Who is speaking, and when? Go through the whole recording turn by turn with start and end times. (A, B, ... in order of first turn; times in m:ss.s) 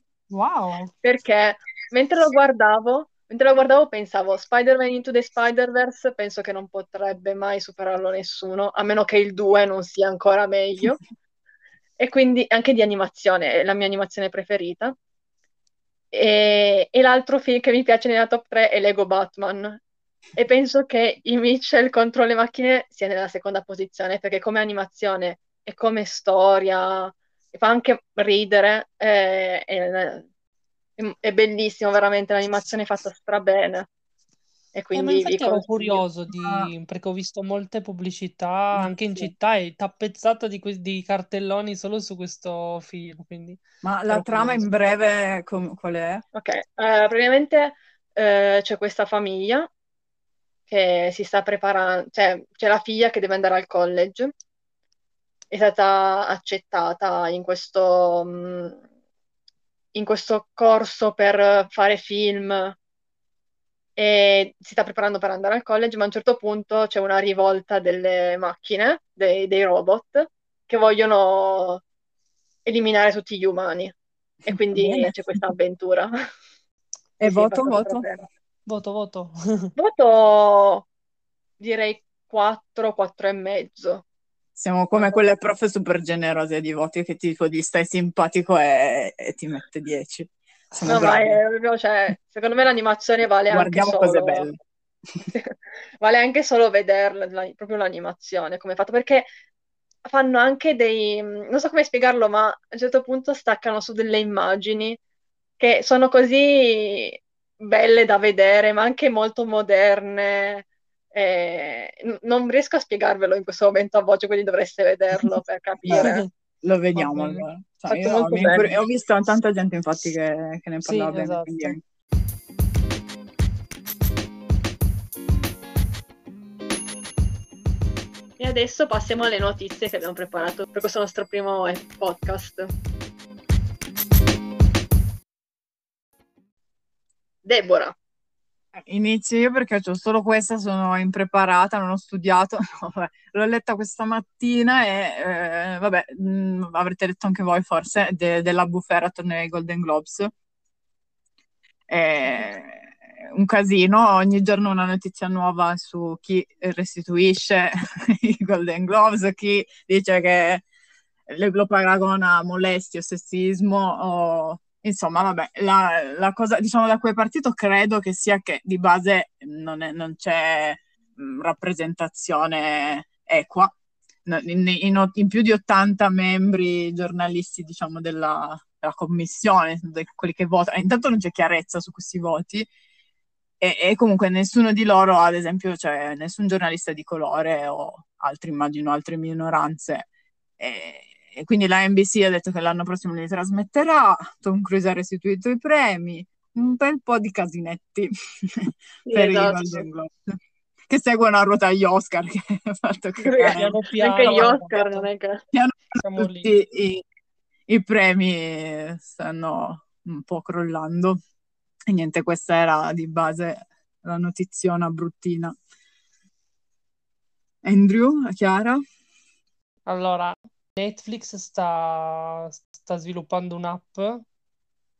0:00.3-0:00.9 A
0:01.0-0:11.0 B
0:12.0-0:14.9 B
0:16.1-0:19.8 B
0:20.4-0:30.3 B
0:31.0-0:33.9 B
0:34.7-0:36.0 B
0:34.9-0:43.6 A
0:36.4-0:36.7 C
0:43.8-0:46.2 C
0:44.1-0:44.6 A
0:46.3-0:49.7 B
0:50.7-0:54.3 B
0:55.5-0:58.8 B
0:59.9-1:02.8 B
1:04.0-1:11.8 B
1:12.6-1:13.9 B
1:14.4-1:15.1 C
1:14.5-1:16.1 B
1:17.2-1:18.0 C
1:17.2-1:18.3 B
1:18.7-1:19.7 A
1:19.8-1:20.9 B
1:21.6-1:24.0 B
1:24.6-1:31.4 C
1:30.9-1:34.5 B
1:33.5-1:34.6 C
1:35.3-1:39.3 B
1:40.1-1:45.0 B
1:45.6-1:56.3 B
1:55.8-2:01.8 C
1:57.0-1:57.4 A
1:57.9-1:58.7 B
2:00.8-2:01.8 A
2:08.4-2:12.7 B
2:17.4-2:17.9 B
2:18.8-2:30.3 C
2:31.9-2:40.6 C
2:41.3-2:53.7 C
2:54.3-3:02.7 C
3:03.6-3:20.3 C
3:19.1-3:19.8 B
3:20.9-3:24.5 C
3:23.2-3:25.4 B
3:23.6-3:25.1 A
3:25.5-3:27.0 C
3:26.0-3:26.6 A
3:27.7-3:31.2 C
3:31.9-3:35.6 C
3:37.6-3:38.8 C
3:39.9-3:44.2 A